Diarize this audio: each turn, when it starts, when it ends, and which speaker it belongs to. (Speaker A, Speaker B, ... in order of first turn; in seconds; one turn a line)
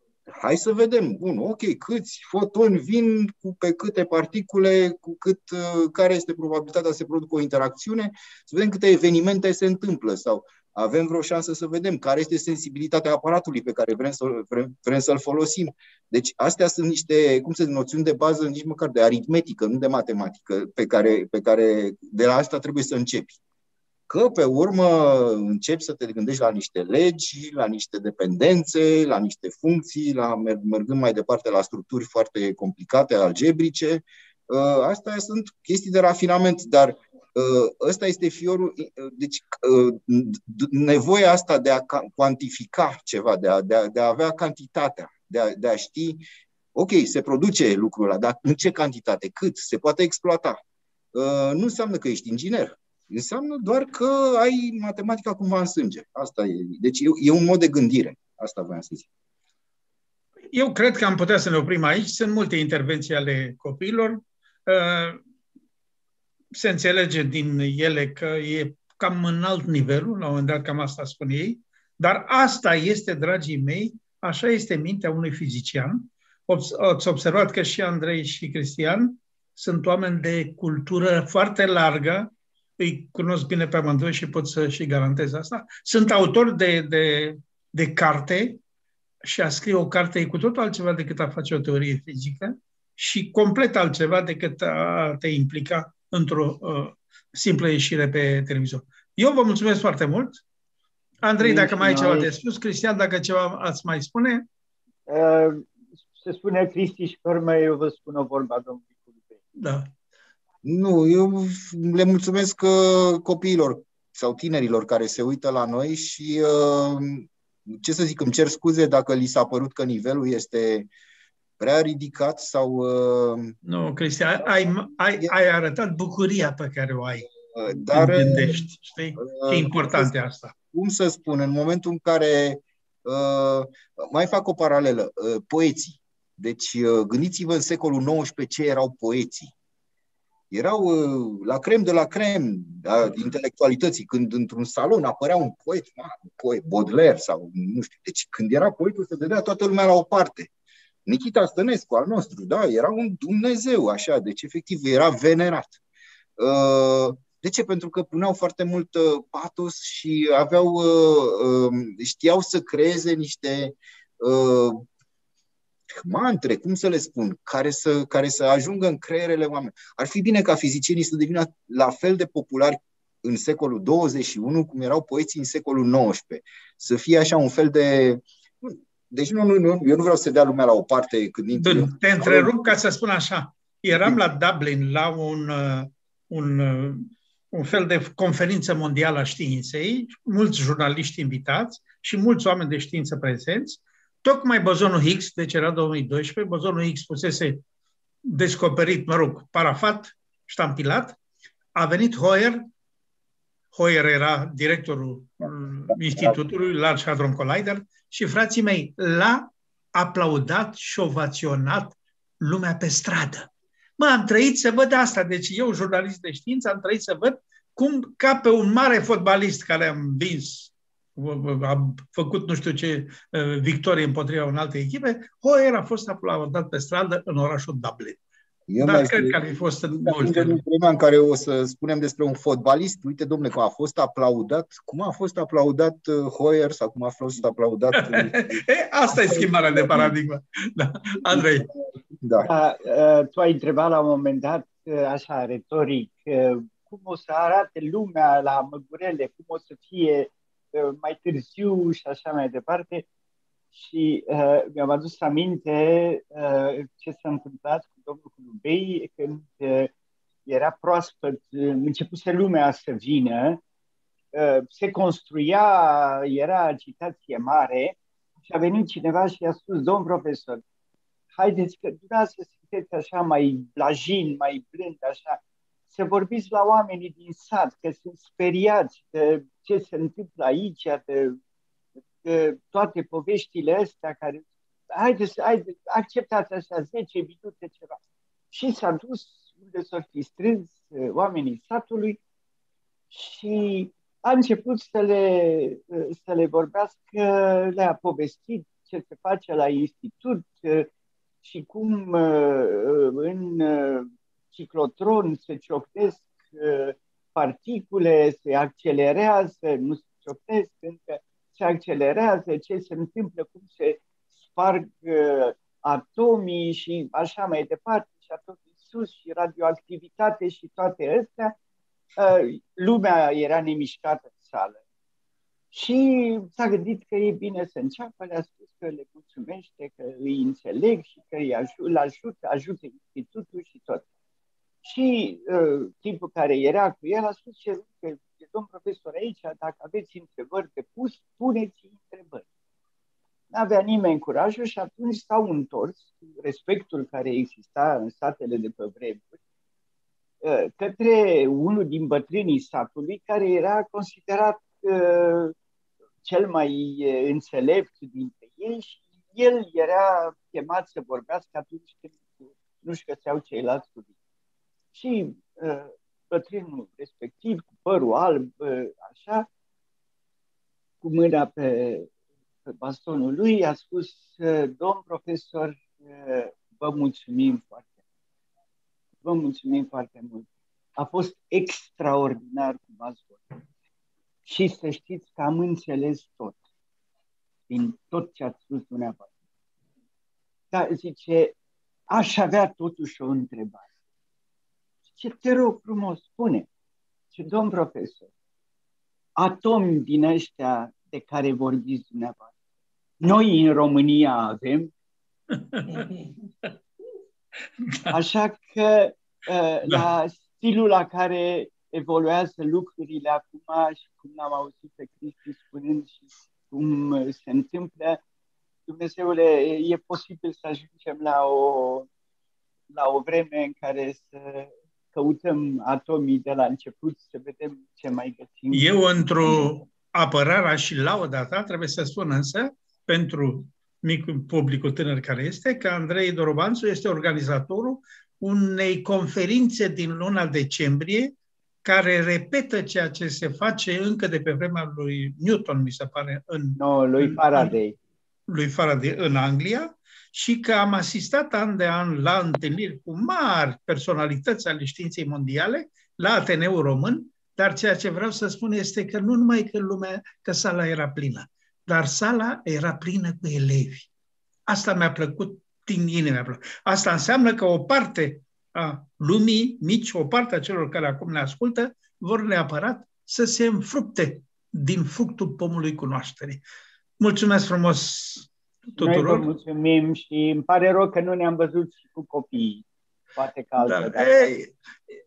Speaker A: 0.3-23.4
Speaker A: 24.1-46.2
Speaker A: 46.7-50.6
Speaker A: 51.1-59.1
Speaker B: 60.5-65.2
Speaker B: 66.5-88.6
Speaker B: 89.2-100.4
Speaker B: 101.2-104.5
Speaker C: 101.4-102.3
Speaker C: 105.1-109.4
Speaker B: 109.6-109.9
Speaker A: 110.6-120.9
Speaker A: 121.6-123.6
Speaker B: 123.6-127.3
Speaker A: 124.7-125.3
Speaker A: 127.5-128.6
Speaker B: 127.8-130.5
Speaker A: 129.2-130.1
Speaker A: 130.7-139.5
Speaker A: 140.5-150.5
Speaker A: 151.1-155.8
Speaker A: 156.4-164.8
Speaker A: 165.9-182.7
Speaker B: 181.6-197.6
Speaker A: 183.9-184.2
Speaker B: 198.2-201.2
Speaker B: 201.7-202.6
Speaker B: 203.7-228.2
Speaker A: 205.9-206.3
Speaker A: 228.7-238.6
Speaker B: 228.8-230.6
Speaker B: 237.9-241.7
Speaker A: 239.2-240.0
Speaker C: 239.4-240.1
Speaker A: 242.2-242.5
Speaker C: 242.4-253.1
Speaker C: 253.7-259.9
Speaker C: 260.4-263.6
Speaker C: 264.3-270.6
Speaker C: 271.3-281.4
Speaker C: 282.2-288.0
Speaker C: 288.5-292.2
Speaker C: 293.1-300.9
Speaker C: 301.4-321.6
Speaker C: 322.2-324.8
Speaker C: 325.7-334.0
Speaker C: 334.8-342.4
Speaker C: 343.5-349.4
Speaker C: 350.4-355.5
Speaker C: 356.2-364.1
Speaker C: 364.9-369.5
Speaker C: 371.0-372.1
Speaker C: 372.6-377.9
Speaker C: 379.2-383.5
Speaker C: 384.4-386.6
Speaker C: 387.7-389.3
Speaker C: 390.7-391.6
Speaker C: 392.1-393.9
Speaker C: 395.1-396.7
Speaker C: 397.3-398.3
Speaker C: 399.4-402.5
Speaker C: 403.2-404.9
Speaker B: 405.5-406.2
Speaker B: 407.8-408.1
Speaker C: 408.1-418.2
Speaker C: 418.9-422.1
Speaker C: 422.9-429.7
Speaker B: 428.7-447.8
Speaker C: 446.8-447.9
Speaker B: 448.5-464.1
Speaker B: 464.7-476.6
Speaker B: 477.2-479.5
Speaker C: 479.0-484.5
Speaker B: 483.8-484.7